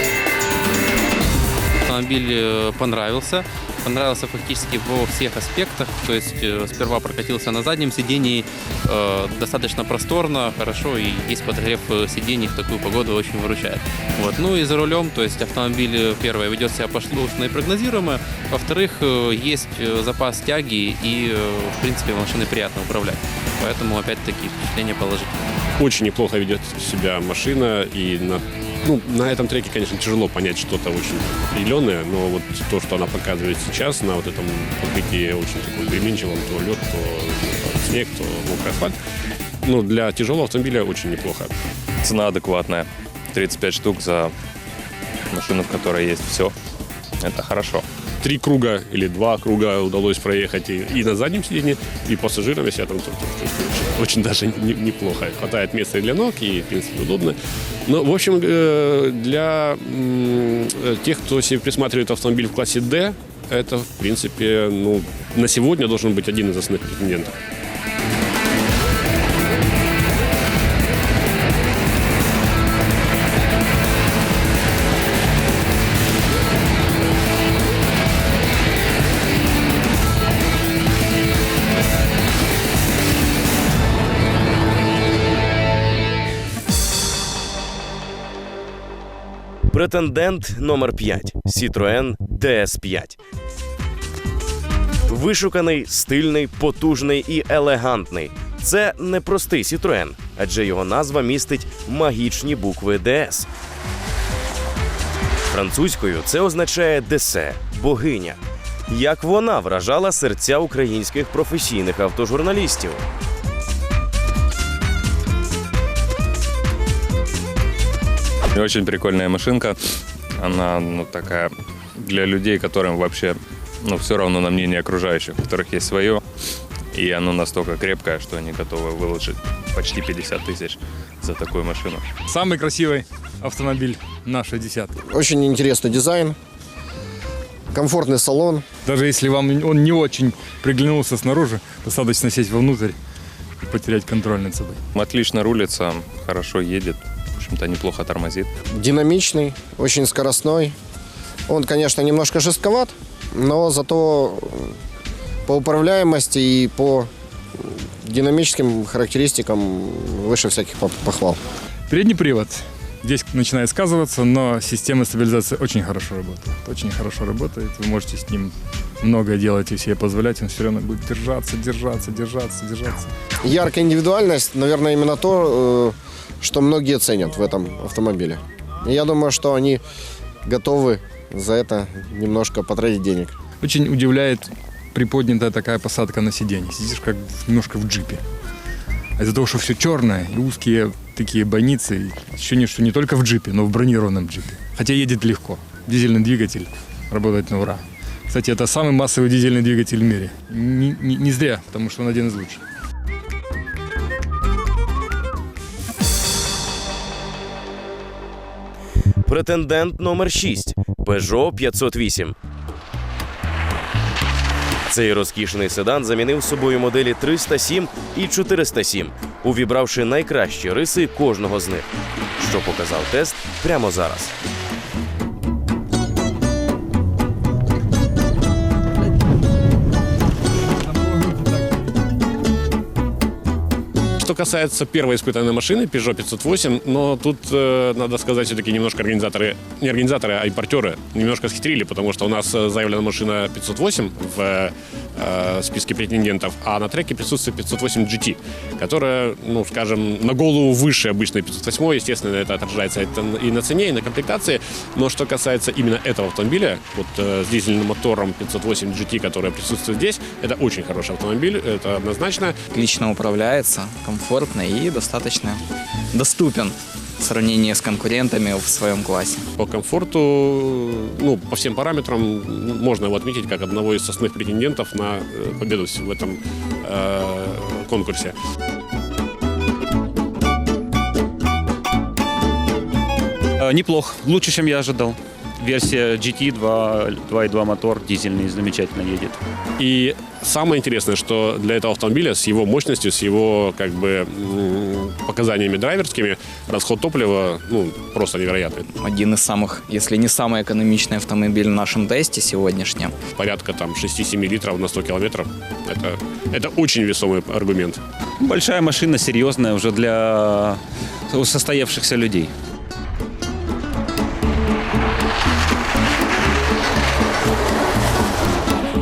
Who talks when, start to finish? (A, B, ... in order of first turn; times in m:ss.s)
0:01.8-0:25.4 A
0:25.8-0:39.0 B
0:39.6-0:41.5 B
0:42.0-0:44.3 C
0:45.3-0:46.5 C
0:47.2-0:47.8 C
0:48.2-1:07.4 B
1:29.7-1:33.2 D
1:35.0-1:43.5 D
1:45.5-1:48.4 D
1:48.9-1:53.0 D
1:58.5-2:06.2 C
2:06.9-2:12.1 C
2:12.2-2:14.9 E
2:15.1-2:16.4 F
2:17.7-2:18.6 F
2:18.8-2:23.0 E
2:23.6-2:24.8 E
2:24.9-2:28.5 C
2:28.8-2:30.8 F
2:31.5-2:34.8 F
2:35.5-2:41.4 F
2:41.9-2:53.1 E
2:53.4-2:59.8 F
3:00.4-3:03.4 F
3:03.6-3:08.2 E
3:09.2-3:22.6 E
3:29.2-3:32.4 D
3:34.9-3:41.9 D
3:42.4-3:44.3 D
3:54.2-4:22.6 B
4:22.7-4:29.5 G
4:29.6-4:38.4 B
4:43.6-4:49.4 H
4:49.8-4:58.9 B
4:59.0-5:03.2 G
5:03.4-5:08.0 B
5:08.4-5:12.5 H